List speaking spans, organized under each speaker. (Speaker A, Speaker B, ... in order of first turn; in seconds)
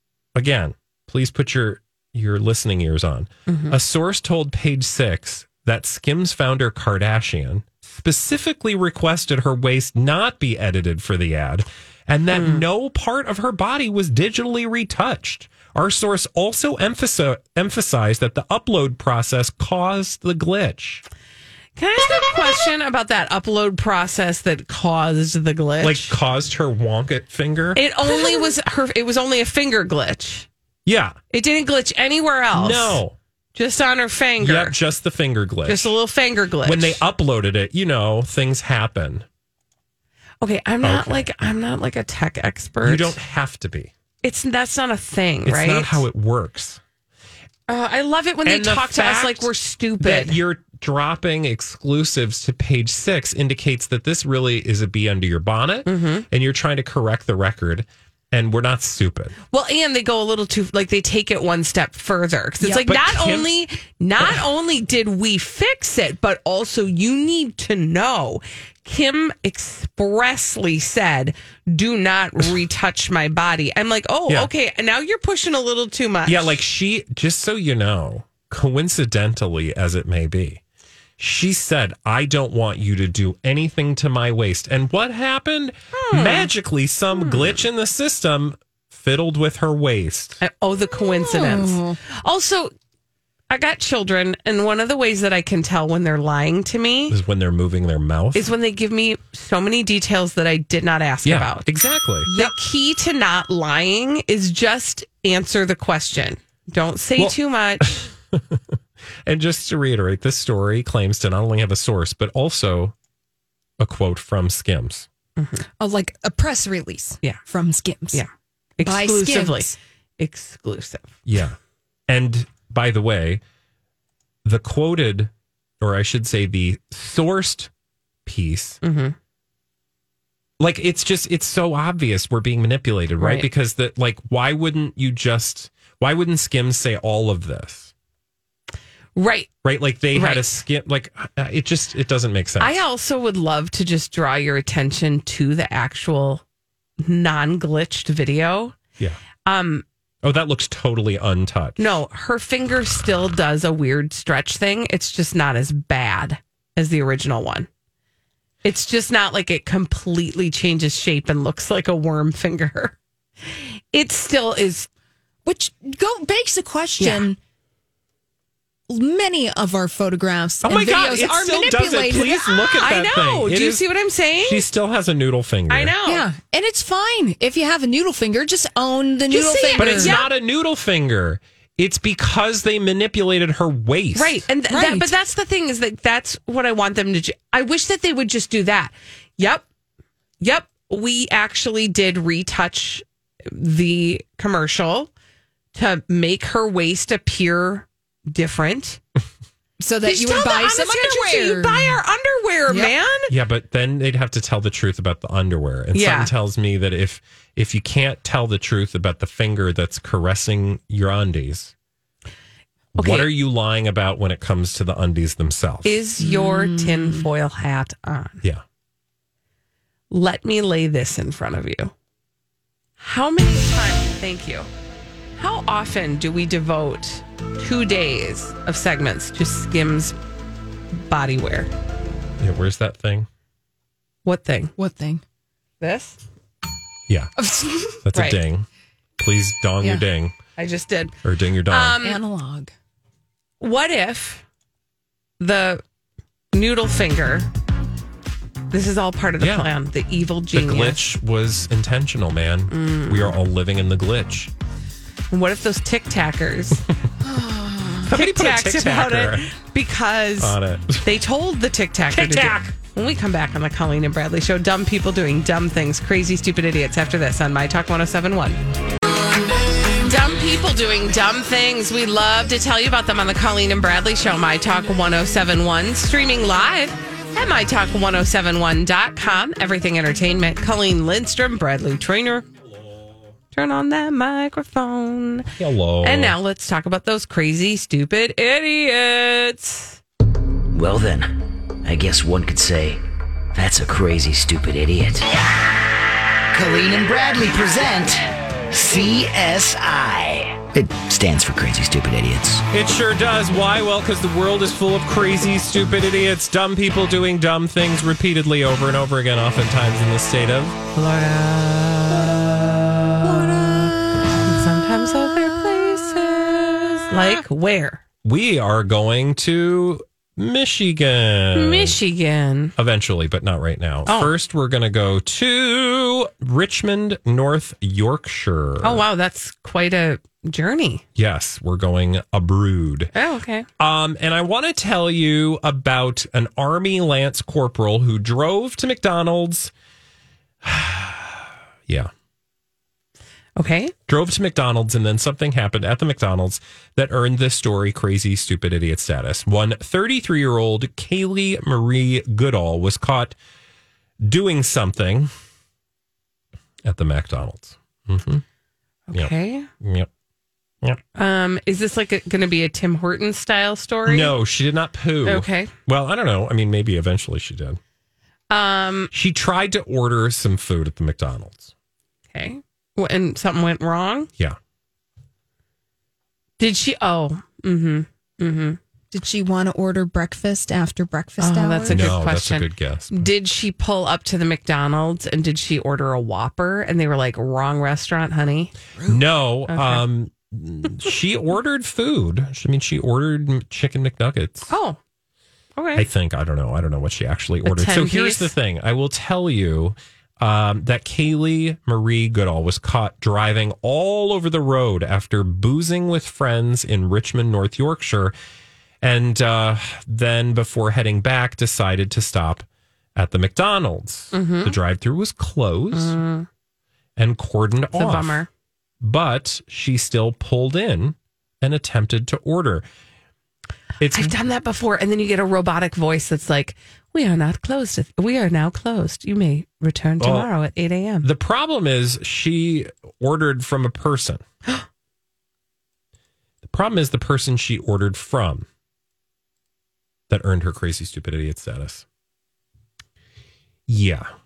Speaker A: 0.3-21.0, 25.8-28.2, 30.9-31.2, 32.5-33.1, 34.4-35.9, 36.6-39.2, 40.8-41.3, 42.8-43.9, 45.4-46.8, 48.4-49.5, 50.0-59.4, 62.7-63.5, 64.2-64.4, 76.2-80.6, 81.2-90.4, 97.1-98.5, 101.2-102.3, 107.2-112.9, 113.8-115.1, 121.2-121.6, 122.1-123.4, 124.4-127.7, 128.2-128.8, 130.6-137.9, 139.6-142.8, 150.2-151.9, 170.6-173.8, 174.4-175.9, 179.7-184.4, 203.3-211.7, 212.9-216.0, 232.4-233.3, 238.0-238.7, 239.2-240.3, 241.2-242.0, 249.4-249.7, 250.5-254.5, 258.1-259.5, 260.4-261.1, 262.1-262.8, 285.6-286.4, 302.7-310.8, 318.2-322.0, 322.8-329.1, 331.1-333.1, 333.8-339.7, 340.6-342.1, 344.1-353.3, 354.2-355.3, 356.8-358.4, 359.1-360.1, 364.1-367.8, 369.1-371.7, 381.9-383.3, 389.0-394.7, 395.9-408.3, 409.0-416.2, 417.2-418.4, 419.0-422.8, 424.0-424.3, 430.2-430.5, 431.2-434.4, 436.6-438.7, 440.3-442.1, 443.9-444.3
Speaker B: 3.5-3.8, 12.3-12.6, 21.8-26.1, 27.8-30.5, 31.3-33.0, 33.5-34.8, 35.6-37.0, 40.4-43.1, 44.2-46.0, 47.7-50.4, 55.9-56.2, 59.5-76.6, 85.9-86.5, 87.3-87.5, 90.4-92.7, 93.5-97.2, 98.3-101.7, 102.3-107.9, 115.4-115.6, 118.1-121.2, 128.8-129.2, 133.2-133.5, 139.2-139.5, 140.1-140.5, 142.6-146.4, 147.0-148.8, 149.4-149.8, 151.8-157.7, 158.6-164.9, 167.0-167.3, 172.8-174.6, 175.7-176.2, 179.3-180.3, 184.1-189.6, 190.4-195.1, 195.7-199.0, 200.0-203.3, 205.9-206.3, 212.9-213.3, 215.8-218.4, 220.1-221.9, 223.0-224.7, 225.4-230.2, 230.9-231.7, 234.2-234.7, 235.8-236.2, 238.1-238.4, 240.6-241.1, 241.7-242.2, 243.6-244.4, 245.4-245.8, 246.5-247.5, 248.7-251.1, 252.7-253.3, 255.3-256.8, 258.0-268.6, 270.0-282.4, 283.5-285.5, 286.0-290.0, 310.9-318.0, 321.5-322.7, 324.1-324.3, 328.8-331.0, 333.1-333.7, 343.6-343.9, 359.1-359.7, 361.1-364.3, 365.2-365.7, 368.5-369.1, 372.3-374.3, 376.6-378.8, 381.4-388.7, 389.7-390.0, 394.7-395.0, 395.8-396.1, 397.6-398.5, 414.3-414.8, 415.9-416.5, 417.9-418.5, 424.1-431.3
Speaker C: 91.2-92.0, 102.3-102.5, 115.8-118.2, 118.8-119.7, 165.4-167.4, 168.9-172.8, 176.1-180.2, 184.7-185.1, 199.8-202.0, 202.7-202.9, 216.2-217.2, 234.8-235.2, 237.4-238.0, 242.0-242.7, 257.2-258.0, 379.1-382.1
Speaker D: 290.7-291.3, 291.8-293.0, 293.5-295.4, 296.5-302.6